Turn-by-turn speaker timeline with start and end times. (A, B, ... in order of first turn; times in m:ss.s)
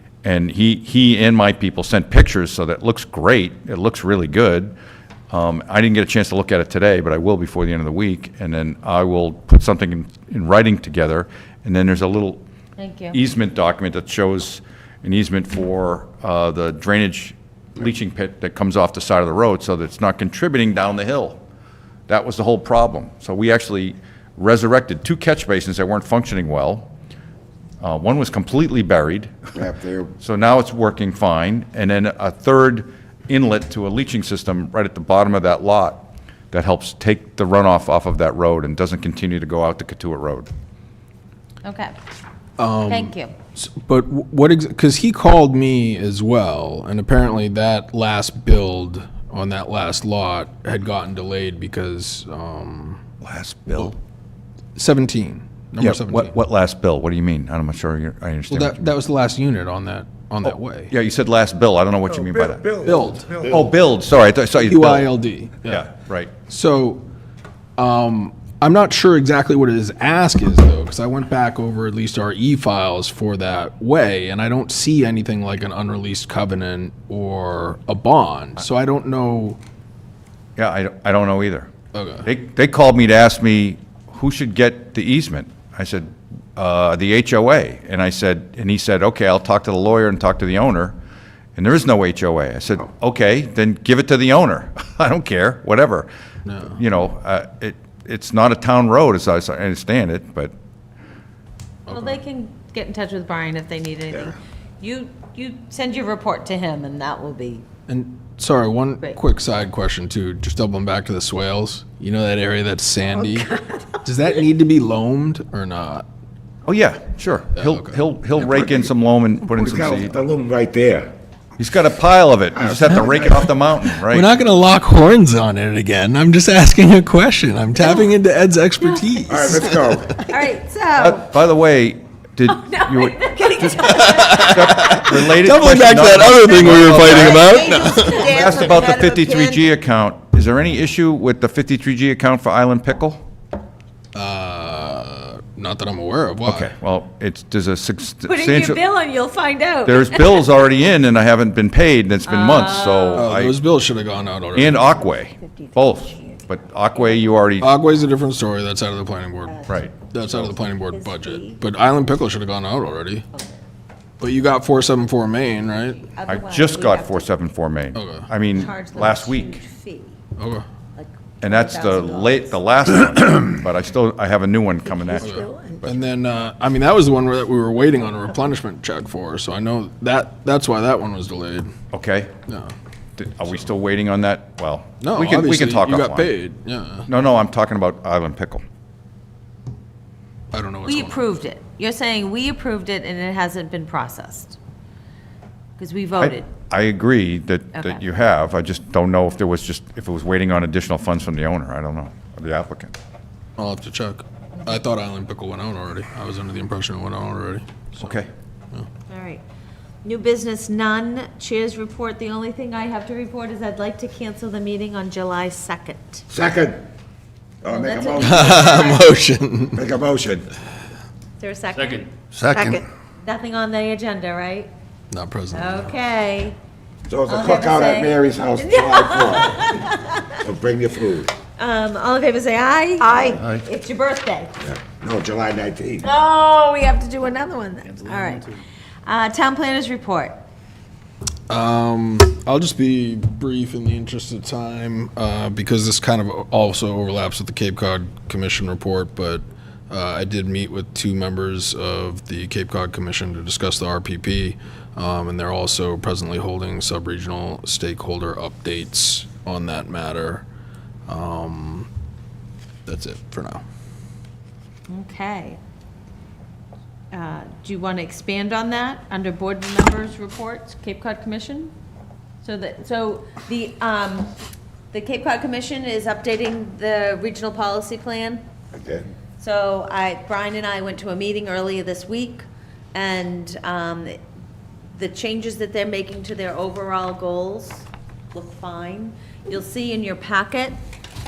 0:00.2-0:04.7 A
0:05.3-0:12.4 A
0:12.8-0:13.2 B
0:13.1-0:21.4 A
0:22.1-0:26.9 A
0:27.8-0:29.3 A
0:29.6-0:30.1 C
0:30.2-0:40.5 A
0:41.6-0:42.0 B
0:42.6-0:53.0 D
0:42.9-0:43.4 B
0:53.2-0:54.0 A
0:54.8-0:56.4 D
0:55.8-0:58.9 A
0:58.5-1:00.9 D
1:00.4-1:02.6 A
1:02.1-1:03.8 C
1:02.8-1:03.3 D
1:03.5-1:05.1 A
1:04.6-1:05.9 D
1:05.7-1:06.3 A
1:06.5-1:07.0 D
1:07.8-1:19.6 D
1:20.6-1:21.7 A
1:21.9-1:22.3 D
1:22.2-1:31.0 A
1:31.6-1:36.1 A
1:36.5-1:36.8 D
1:36.6-1:40.5 A
1:41.9-1:42.2 D
1:41.9-1:47.7 B
1:47.9-1:56.1 D
1:56.7-2:00.2 A
1:57.6-1:58.0 D
1:58.4-1:58.8 C
1:59.5-2:01.1 C
2:01.6-2:04.3 A
2:02.6-2:03.5 C
2:04.0-2:10.2 D
2:09.3-2:10.2 C
2:10.3-2:11.3 B
2:11.0-2:23.2 A
2:12.5-2:14.9 B
2:13.8-2:18.6 D
2:16.5-2:19.7 B
2:24.2-2:26.7 D
2:26.4-2:28.8 A
2:28.3-2:30.6 B
2:29.8-2:33.6 A
2:32.2-2:33.3 B
2:33.1-2:34.8 D
2:34.6-2:37.7 A
2:35.4-2:36.2 B
2:37.6-2:43.3 D
2:39.7-2:40.6 A
2:40.9-2:41.6 B
2:44.2-2:46.0 D
2:46.0-2:47.3 B
2:46.2-2:49.6 A
2:48.0-2:48.3 D
2:48.5-2:50.2 B
2:50.4-2:50.6 D
2:51.0-2:52.6 B
2:51.4-2:56.0 A
2:55.2-3:01.7 D
3:01.9-3:02.3 A
3:02.5-3:02.7 D
3:03.2-3:06.4 A
3:05.0-3:07.1 D
3:07.1-3:08.6 A
3:10.5-3:11.2 D
3:10.8-3:14.6 B
3:15.8-3:16.5 B
3:16.2-3:22.9 A
3:17.7-3:18.0 B
3:23.6-3:28.2 D
3:28.0-3:28.3 A
3:29.1-3:29.4 B
3:30.0-3:36.2 B
3:36.3-3:36.8 C
3:37.6-3:38.6 C
3:37.7-3:39.3 B
3:38.2-3:39.8 D
3:39.8-3:40.5 C
3:41.4-3:42.1 B
3:43.2-3:44.7 B
3:45.1-3:45.9 D
3:45.5-3:46.6 B
3:47.1-3:49.8 C
3:47.3-3:50.4 B
3:50.4-3:51.3 C
3:51.6-3:54.5 B
3:54.6-3:56.1 C
3:56.0-4:00.4 B
4:01.5-4:20.4 D
4:21.1-4:21.9 D
4:22.9-4:23.6 D
4:24.9-4:25.6 B
4:27.1-4:31.7 B
4:32.4-4:34.3 B
4:34.9-4:38.4 B
4:38.7-4:39.1 C
4:39.4-4:44.2 B
4:44.9-4:50.8 B